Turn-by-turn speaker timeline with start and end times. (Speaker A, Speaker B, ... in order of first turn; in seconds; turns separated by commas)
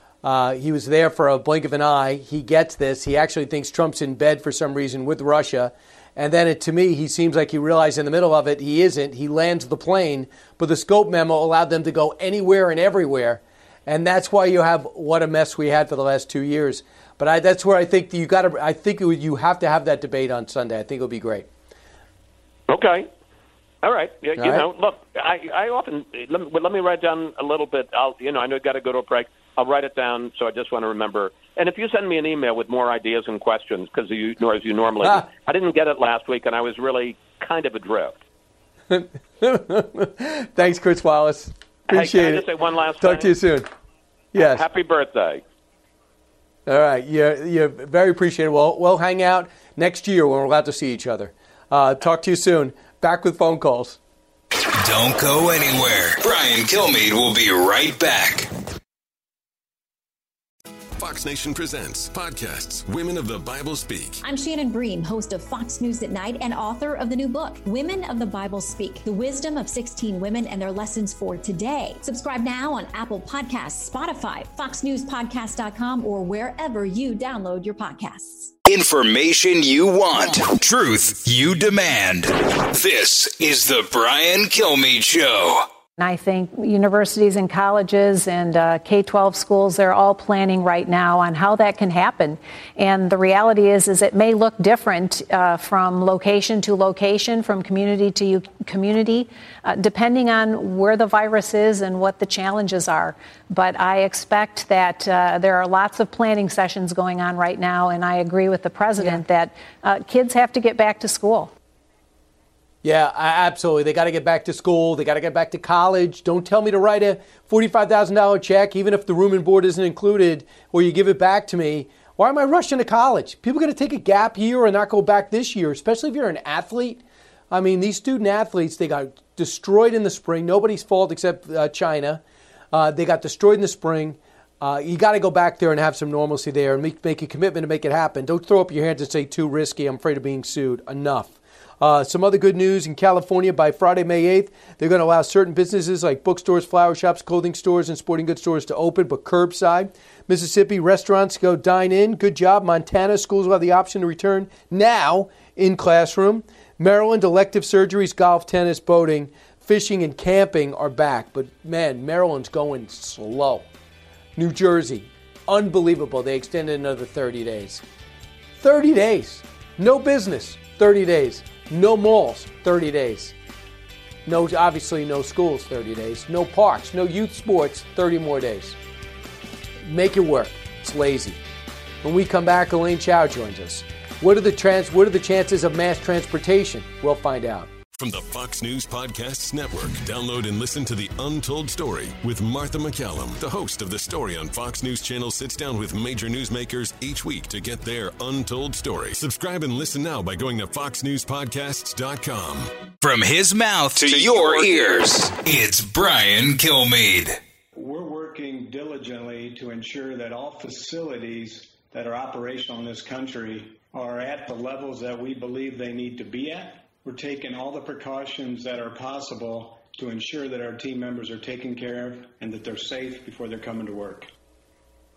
Speaker A: 0.2-21.4, Speaker B: 22.7-23.1, Speaker B: 23.8-38.1, Speaker A: 24.4-24.6, Speaker A: 38.9-42.5, Speaker B: 41.9-43.3, Speaker A: 43.0-43.7, Speaker A: 44.3-44.6, Speaker B: 44.4-45.4, Speaker A: 46.7-54.0, Speaker C: 54.8-58.5, Speaker D: 61.0-64.2, Speaker E: 64.2-78.5, Speaker C: 78.7-85.7, Speaker F: 86.0-111.5, Speaker A: 112.8-132.2, Speaker A: 132.7-163.7, Speaker A: 164.3-167.8, Speaker A: 168.6-173.3, Speaker A: 174.2-178.8, Speaker A: 179.9-181.4, Speaker A: 182.0-187.7, Speaker D: 187.9-202.7, Speaker C: 203.0-207.4, Speaker G: 207.8-224.3